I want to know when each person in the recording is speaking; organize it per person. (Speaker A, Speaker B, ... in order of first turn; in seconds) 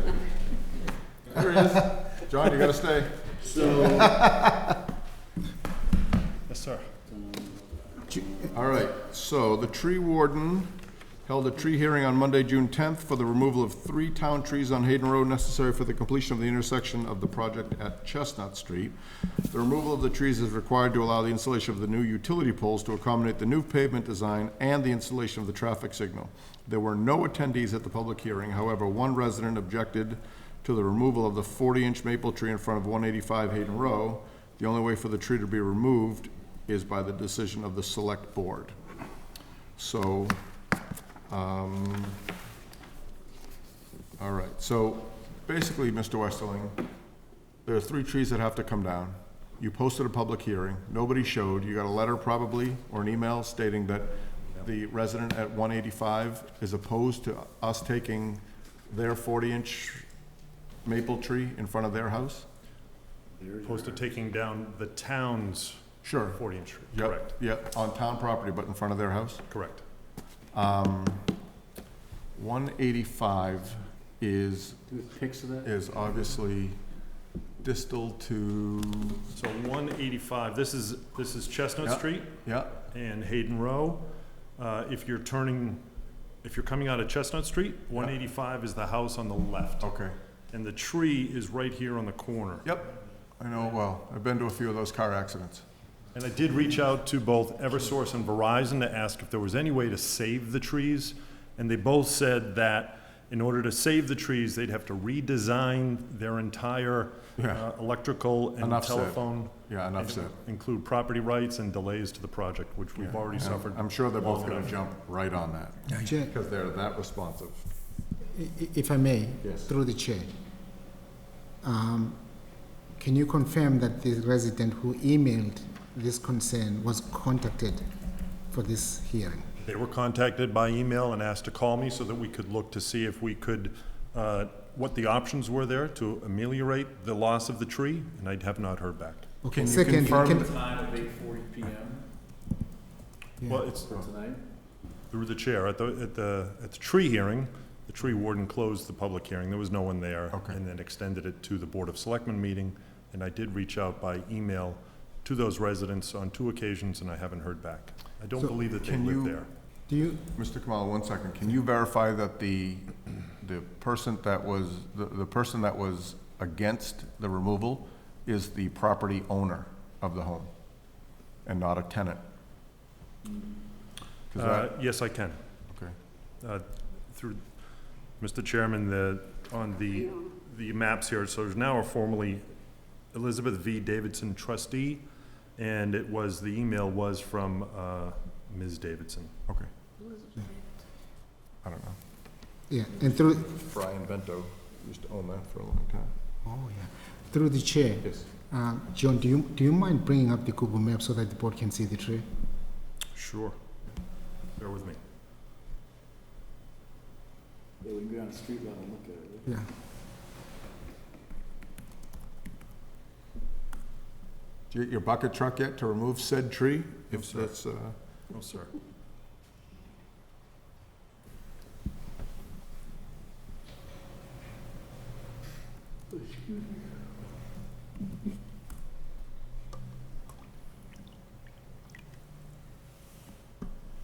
Speaker A: 1.3-3.4, 8.5-10.7, 11.2-18.9, 19.4-38.8, 39.8-40.4, 41.3-42.2, 44.2-46.8, 47.6-60.1, 60.8-62.5, 66.0-69.5, 70.5-71.3, 72.3-74.8, 75.6-76.8, 77.6-79.2, 81.8-82.8, 89.8-90.1, 93.4-95.6, 107.4-107.6, 108.6-110.3, 113.0-117.6, 119.4-119.7, 139.5-140.5, 150.3-150.6, 158.8-159.4, 160.3-170.5, 171.4-172.2, 174.3-174.7, 191.6-192.0, 193.4-196.1, 214.7-218.0
Speaker B: 3.4-4.2, 7.1-7.6, 63.4-64.0, 74.9-75.7, 139.8-142.1, 143.8-144.4, 207.8-209.5, 226.1-226.9
Speaker C: 4.0-4.6, 115.9-116.3, 118.3-120.3, 121.6-122.2, 123.0-127.8, 128.5-129.5, 139.4-140.5, 159.9-160.2, 192.7-193.5, 196.4-202.2
Speaker D: 6.5-6.9, 63.6-67.3, 69.5-69.8, 79.3-82.3, 82.9-85.9, 86.4-89.9, 90.5-92.7, 96.1-114.7, 129.6-139.3, 143.5-143.9, 145.1-159.5, 174.3-175.4, 176.4-177.4, 178.2-182.4, 183.1-185.1, 185.6-189.3, 203.1-203.6, 204.6-205.0, 217.1-217.5, 218.3-218.7